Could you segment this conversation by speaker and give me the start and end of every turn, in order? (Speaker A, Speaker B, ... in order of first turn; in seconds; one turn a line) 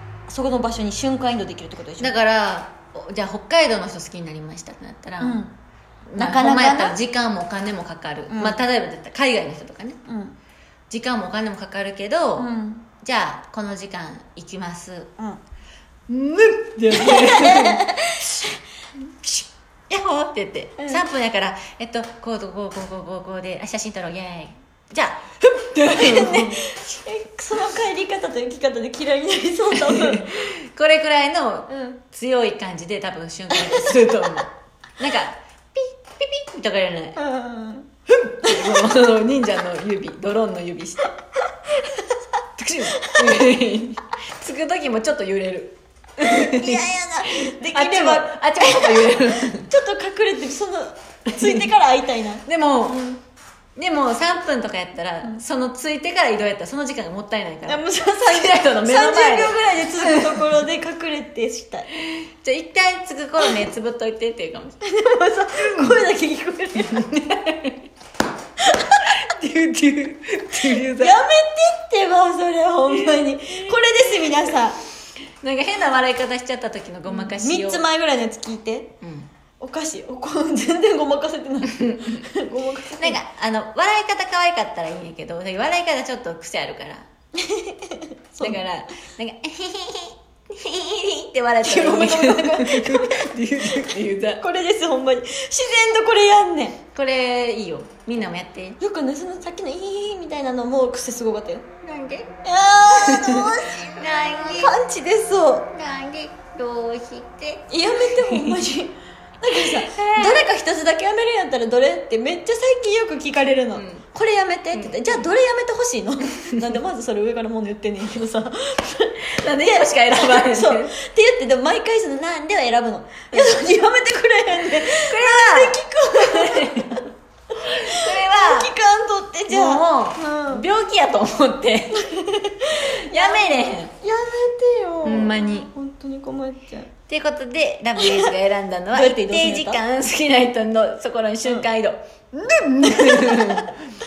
Speaker A: 0.3-2.2
Speaker B: 2.0-5.4
Speaker A: 5.2-5.5
Speaker B: 6.1-10.0
Speaker A: 6.2-7.0
Speaker A: 8.3-8.6
Speaker A: 10.1-10.4
Speaker B: 10.9-12.5
Speaker A: 12.4-12.9
Speaker B: 13.0-15.1
Speaker B: 16.1-18.4
Speaker A: 16.9-18.2
Speaker B: 19.2-26.6
Speaker A: 20.8-21.0
Speaker A: 25.8-30.3
Speaker B: 29.9-37.2
Speaker A: 31.7-32.0
Speaker A: 33.5-34.2
Speaker A: 37.1-37.9
Speaker B: 38.2-41.1
Speaker A: 38.4-38.8
Speaker B: 42.5-49.7
Speaker A: 43.1-43.5
Speaker A: 46.2-53.2
Speaker B: 51.3-51.7
Speaker B: 52.4-53.1
Speaker B: 53.8-60.6
Speaker A: 57.6-61.9
Speaker B: 62.0-64.8
Speaker A: 64.8-67.1
Speaker B: 65.5-66.0
Speaker B: 66.9-67.8
Speaker A: 68.6-69.1
Speaker B: 69.2-71.2
Speaker A: 70.8-74.8
Speaker B: 72.9-73.7
Speaker B: 75.4-77.8
Speaker A: 77.1-78.9
Speaker B: 79.0-79.3
Speaker A: 79.6-83.2
Speaker B: 81.8-82.2
Speaker B: 83.0-87.0
Speaker A: 87.4-88.6
Speaker B: 88.4-94.4
Speaker A: 91.6-96.8
Speaker B: 96.9-98.8
Speaker A: 98.8-101.7
Speaker B: 101.8-102.3
Speaker A: 102.4-105.7
Speaker B: 102.9-104.7
Speaker B: 105.7-108.6
Speaker A: 107.7-130.7
Speaker B: 109.5-110.4
Speaker B: 113.7-114.0
Speaker B: 114.7-115.2
Speaker B: 119.2-120.9
Speaker B: 123.3-123.6
Speaker B: 124.9-127.0
Speaker B: 127.6-128.7
Speaker B: 129.5-132.1
Speaker A: 131.9-136.9
Speaker B: 133.1-133.9
Speaker B: 135.0-135.7
Speaker B: 137.1-143.7
Speaker A: 138.0-138.3
Speaker A: 138.9-139.8
Speaker A: 142.8-143.7